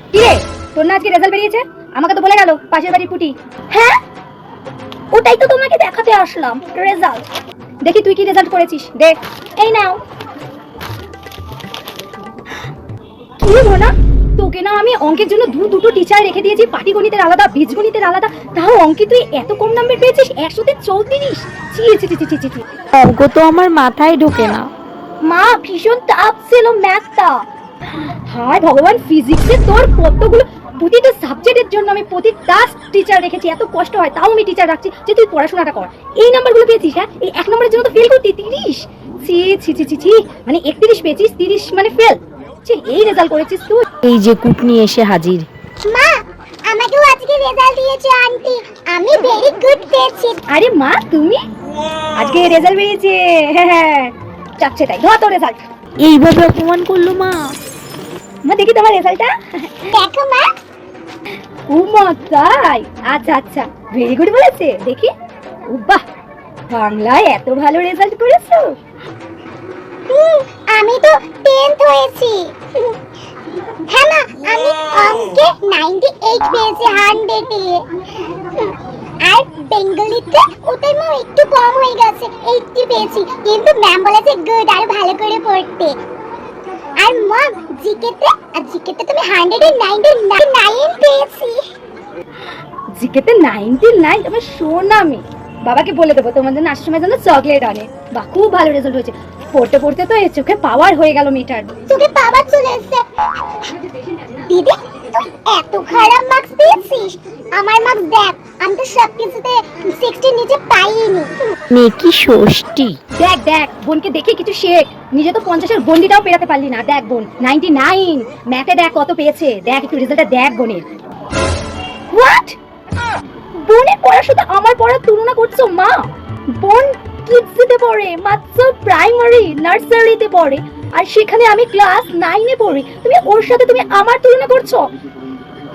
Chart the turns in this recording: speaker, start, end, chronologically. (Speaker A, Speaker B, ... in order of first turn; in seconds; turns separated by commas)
Speaker A: 0.1-4.0, Speaker A: 5.1-7.2, Speaker A: 7.8-10.0, Speaker A: 13.4-22.8, Speaker B: 22.9-24.7, Speaker A: 25.2-27.4, Speaker A: 28.3-43.9, Speaker B: 44.0-45.5, Speaker C: 45.8-46.1, Speaker C: 46.7-50.4, Speaker A: 50.5-51.4, Speaker A: 52.2-55.7, Speaker B: 56.0-57.4, Speaker A: 58.5-59.9, Speaker C: 59.9-60.5, Speaker A: 61.7-65.1, Speaker A: 65.7-66.0, Speaker A: 66.7-68.8, Speaker C: 70.1-72.9, Speaker C: 73.9-77.8, Speaker C: 78.4-86.0, Speaker C: 87.0-91.6, Speaker A: 93.0-101.7, Speaker C: 101.9-103.0, Speaker C: 104.5-111.3, Speaker B: 111.7-113.0, Speaker A: 113.2-120.9, Speaker A: 122.1-122.6, Speaker A: 123.6-134.9